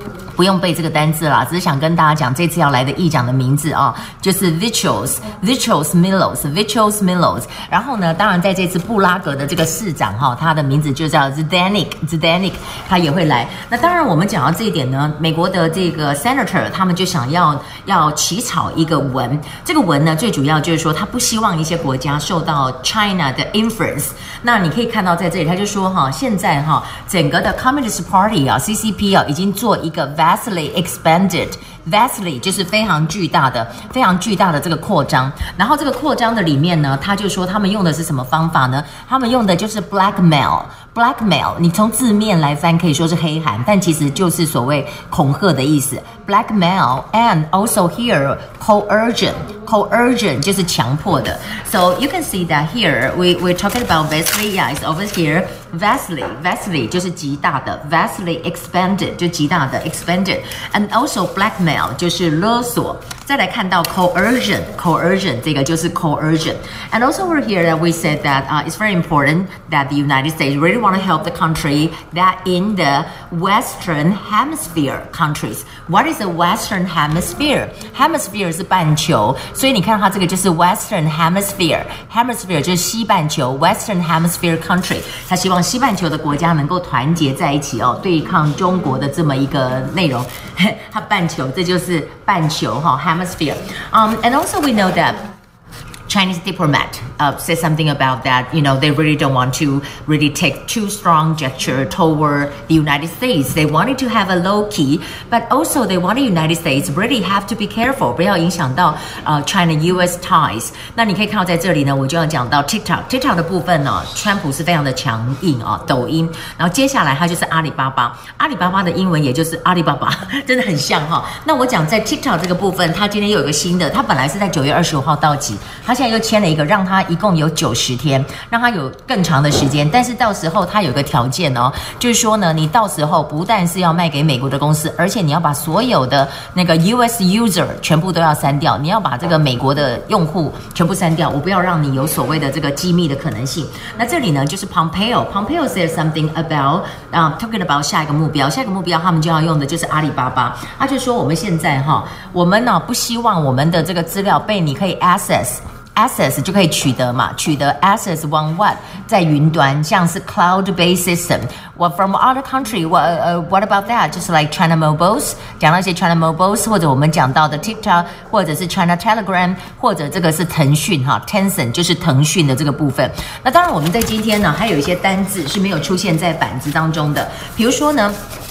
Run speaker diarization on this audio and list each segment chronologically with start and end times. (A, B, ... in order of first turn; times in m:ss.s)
0:00.4-1:35.2 A
1:36.1-2:58.2 A